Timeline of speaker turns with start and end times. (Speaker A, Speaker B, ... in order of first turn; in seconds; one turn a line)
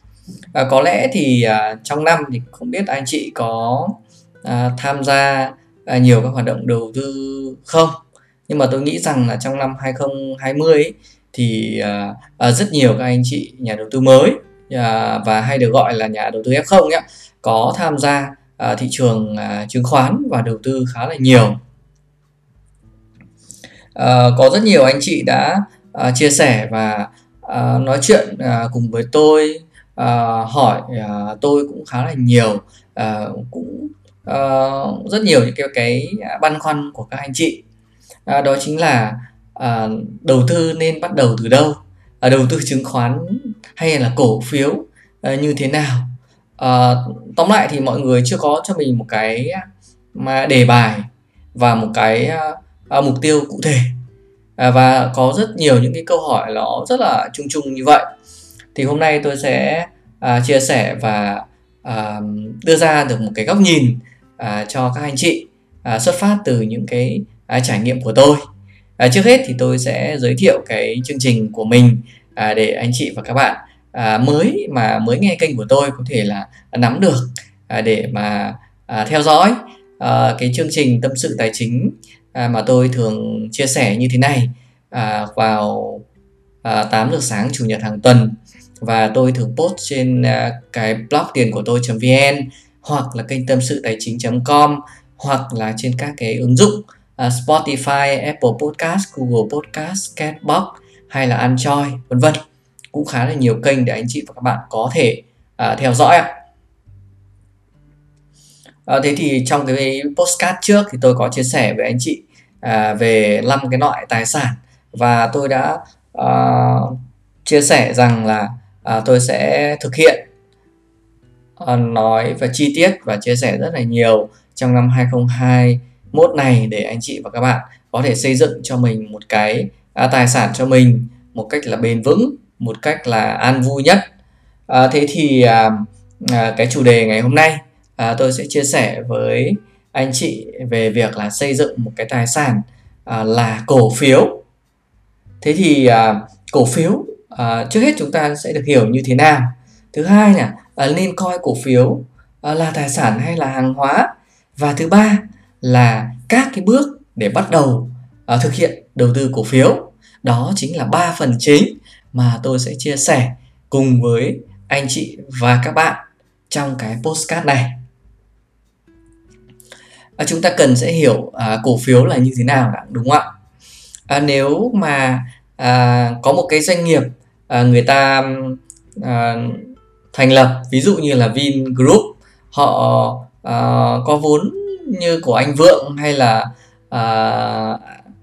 Speaker A: 0.5-21.6
Speaker A: 23.9-37.6
Speaker A: 38.3-54.0
Speaker A: 54.6-58.0
Speaker A: 58.7-68.4
Speaker A: 69.0-86.0
Speaker A: 86.6-102.4
Speaker A: 102.9-106.3
Speaker A: 108.9-120.2
Speaker A: 121.6-134.1
Speaker A: 134.7-144.4
Speaker A: 145.4-167.8
Speaker A: 170.2-173.3
Speaker A: 174.1-188.0